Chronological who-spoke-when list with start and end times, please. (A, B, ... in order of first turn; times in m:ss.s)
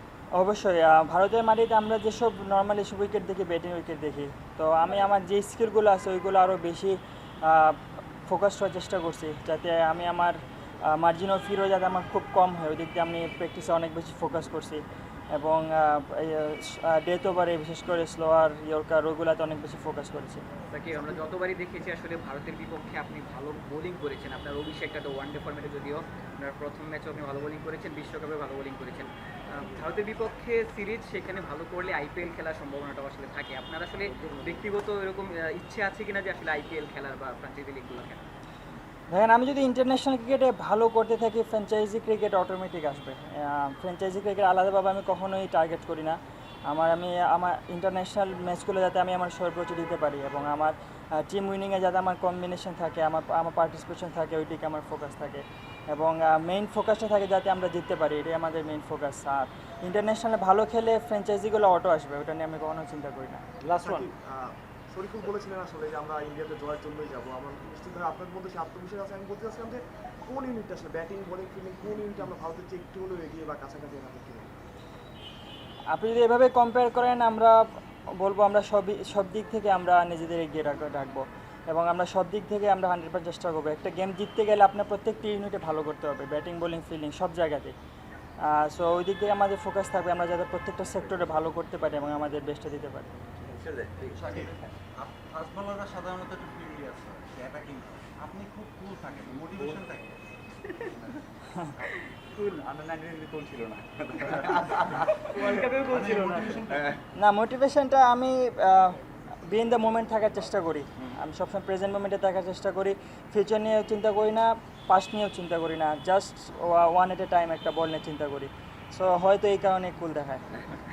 0:00.4-0:14.8 A
0:15.3-0:20.4 A
0:20.7-0:38.2 B
0:39.1-0:46.2 A
0:46.7-1:03.4 A
1:03.8-1:14.5 C
1:15.9-1:17.6 A
1:18.2-1:27.7 A
1:28.4-1:33.1 A
1:33.5-1:34.4 D
1:34.1-1:40.2 E
1:42.6-1:45.5 D
1:45.3-1:46.6 B
1:45.4-1:47.0 E
1:46.7-1:47.0 D
1:47.2-2:00.4 A